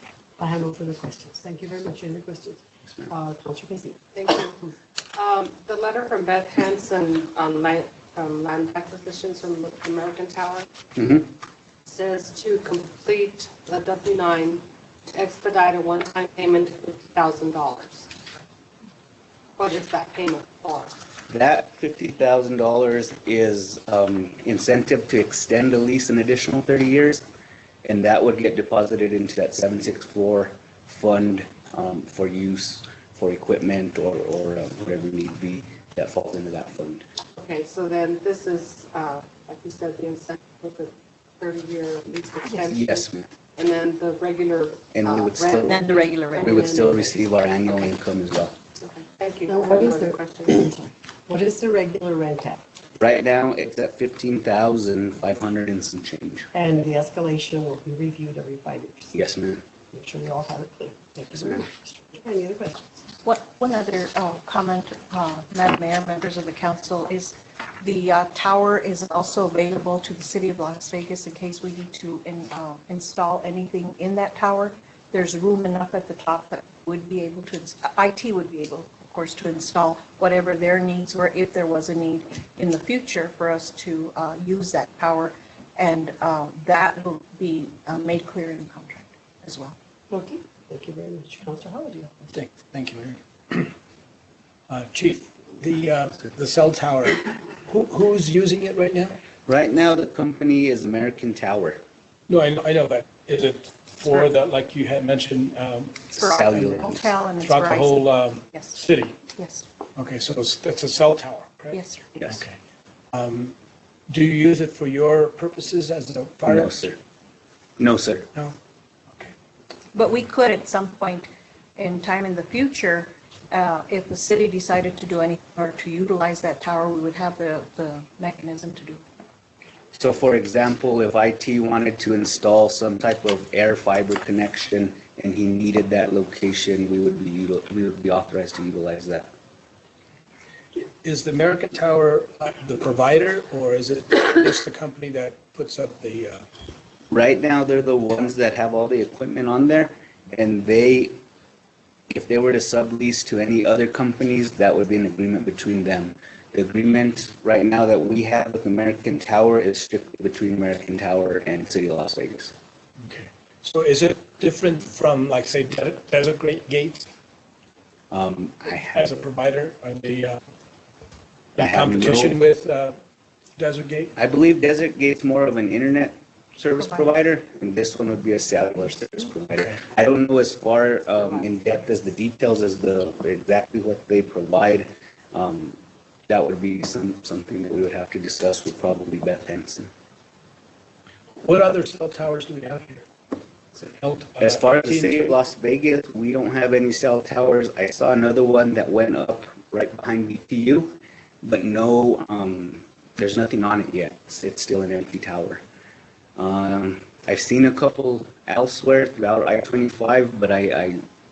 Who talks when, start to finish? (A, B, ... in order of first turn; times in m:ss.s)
0:00.4-0:04.1 A
0:04.2-0:10.7 B
0:11.0-0:11.3 C
0:11.8-0:18.1 B
0:19.6-0:21.0 B
0:21.3-0:27.2 C
0:27.8-0:37.0 C
0:37.4-0:43.0 B
0:42.6-0:43.3 C
0:43.6-0:46.9 B
0:44.9-0:48.5 C
0:45.7-0:46.6 D
0:48.8-0:50.7 B
0:49.5-0:52.6 A
0:53.0-0:56.5 C
0:56.5-0:59.2 A
0:59.1-0:59.6 C
0:59.9-1:02.8 A
1:03.2-1:29.8 D
1:30.1-1:32.1 A
1:32.3-1:33.7 E
1:34.7-1:39.2 E
1:39.5-1:41.8 C
1:42.3-1:46.9 E
1:46.1-1:48.0 D
1:46.2-1:47.0 C
1:47.4-1:49.2 E
1:49.4-1:49.6 D
1:50.0-1:52.5 E
1:51.7-1:52.2 D
1:53.1-1:53.5 E
1:54.1-1:56.8 E
1:56.5-1:57.0 C
1:57.8-1:58.3 C
1:59.9-2:09.0 D
2:10.0-2:19.3 C
2:21.0-2:26.4 E
2:27.1-2:31.2 C
2:32.1-2:42.5 C
2:43.0-2:47.1 E
2:48.1-2:49.3 C
2:49.0-2:50.4 E
2:51.6-2:52.4 C
2:51.6-2:53.0 E
2:53.6-2:54.1 E
2:54.2-3:05.8 C
3:06.3-3:09.9 C
3:11.4-3:13.1 E
3:13.8-3:15.3 E
3:14.4-3:25.6 C
3:26.4-3:31.0 C